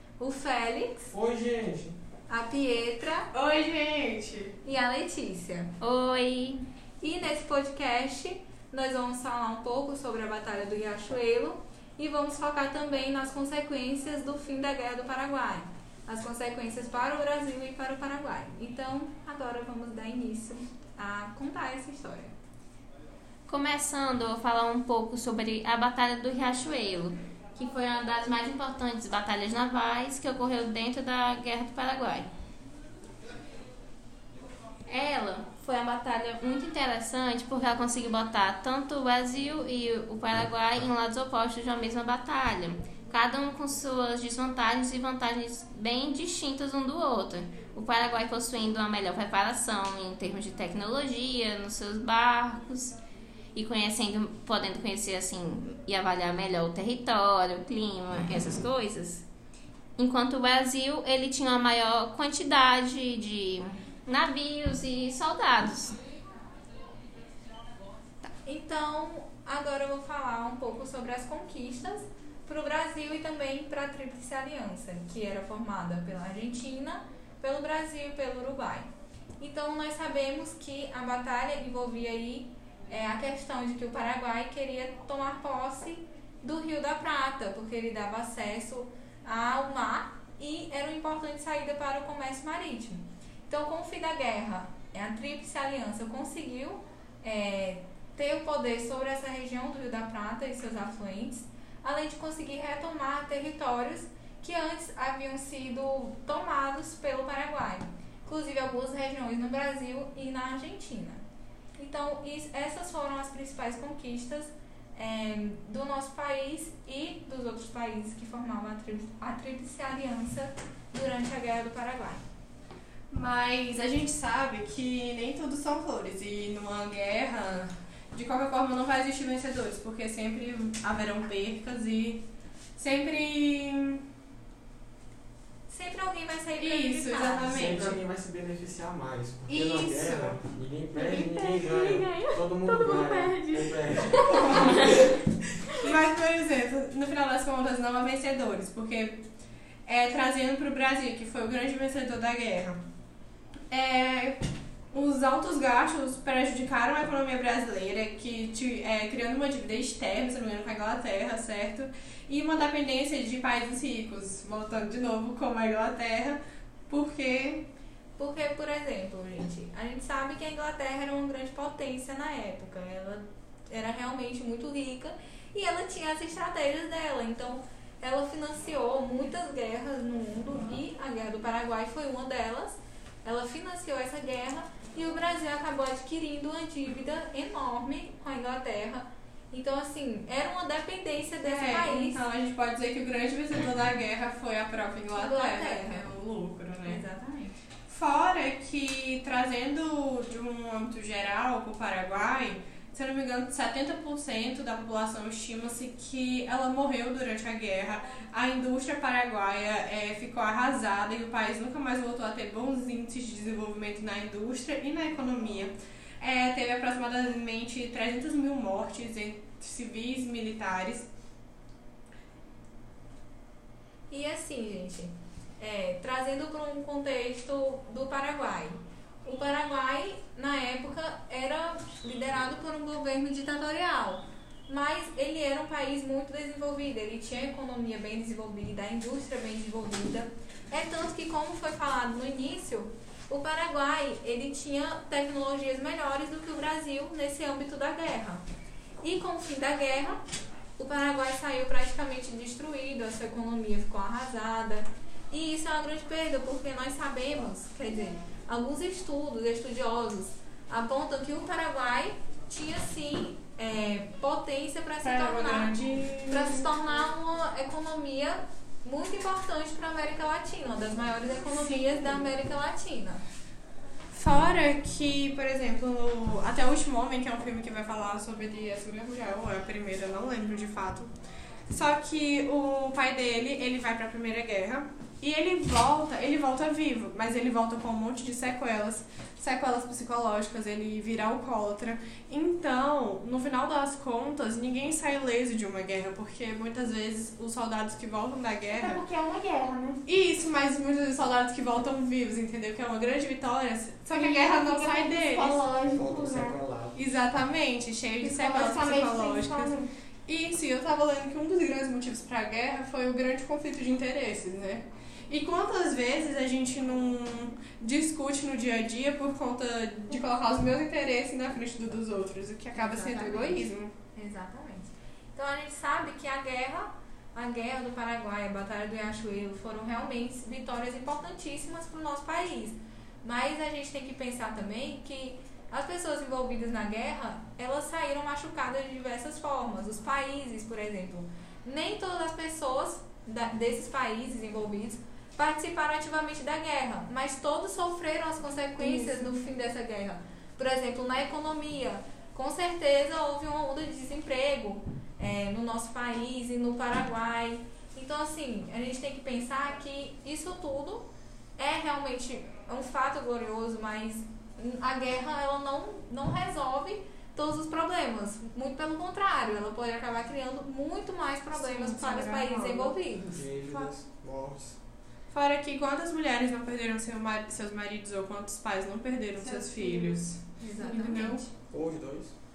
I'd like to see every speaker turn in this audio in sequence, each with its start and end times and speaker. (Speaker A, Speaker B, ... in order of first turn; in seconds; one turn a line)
Speaker A: 0.2-1.1
Speaker B: 1.1-1.9
Speaker A: 2.3-3.3
Speaker C: 3.3-4.5
Speaker A: 4.6-5.7
Speaker D: 5.8-6.6
Speaker A: 7.0-22.3
Speaker D: 23.5-32.3
Speaker D: 34.9-53.0
Speaker D: 53.5-59.3
Speaker D: 60.0-66.0
Speaker A: 68.5-78.9
Speaker A: 79.4-111.2
Speaker A: 111.8-122.2
Speaker C: 123.1-132.2
Speaker C: 132.8-134.0
Speaker A: 135.7-137.9
Speaker C: 136.6-138.0
Speaker B: 137.5-145.1
Speaker C: 139.5-140.4
Speaker E: 140.9-145.0
Speaker C: 144.3-144.8
Speaker C: 145.8-149.2
Speaker C: 149.8-152.8
Speaker C: 153.7-167.7
Speaker A: 168.2-192.2
Speaker C: 191.4-197.1
Speaker A: 195.1-196.1
Speaker A: 196.8-197.6
Speaker C: 197.9-221.1
Speaker A: 224.1-248.4
Speaker A: 249.0-250.2
Speaker A: 250.8-273.2
Speaker C: 265.0-266.7
Speaker C: 271.5-272.2
Speaker C: 274.1-281.1
Speaker C: 281.7-299.0
Speaker E: 298.7-300.0
Speaker C: 300.1-305.7
Speaker E: 304.1-306.6
Speaker B: 305.9-307.0
Speaker C: 306.9-309.8
Speaker E: 308.2-309.9
Speaker C: 310.3-323.9
Speaker A: 322.7-361.1
Speaker E: 348.8-349.3
Speaker A: 361.6-373.4
Speaker C: 371.5-373.0
Speaker B: 373.3-374.8
Speaker C: 375.3-381.4
Speaker E: 379.4-380.2
Speaker A: 380.6-381.5
Speaker E: 380.8-381.2
Speaker B: 381.7-382.3